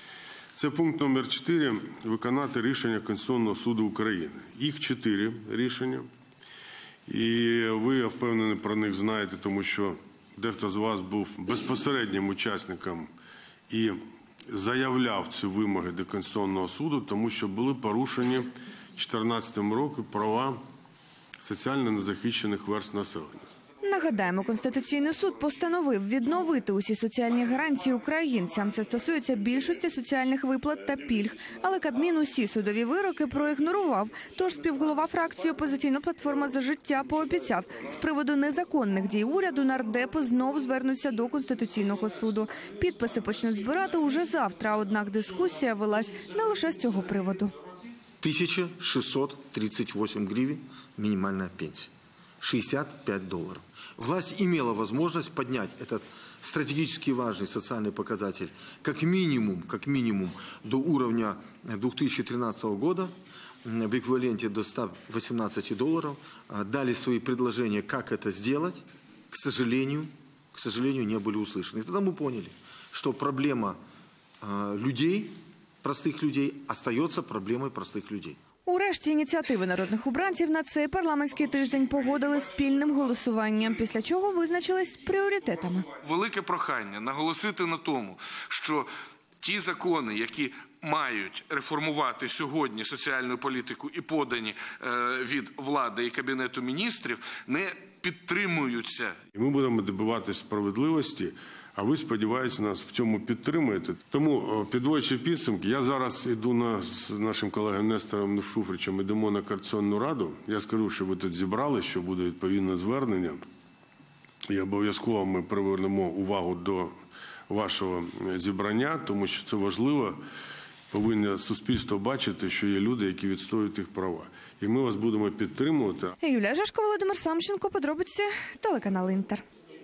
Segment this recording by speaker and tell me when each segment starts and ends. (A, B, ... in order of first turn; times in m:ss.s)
0:00.5-0:06.1 A
0:07.1-0:13.1 A
0:13.7-0:20.6 A
0:21.4-0:23.5 A
0:23.8-0:47.5 B
0:48.2-0:51.9 C
0:52.4-1:03.1 C
1:03.6-1:13.8 C
1:14.4-1:18.4 C
1:18.6-1:25.9 B
1:25.9-1:28.9 D
1:29.4-1:39.2 D
1:39.3-1:53.4 A
1:54.5-1:56.9 A
1:57.5-2:00.2 A
2:00.9-2:06.1 A
2:06.2-2:09.4 B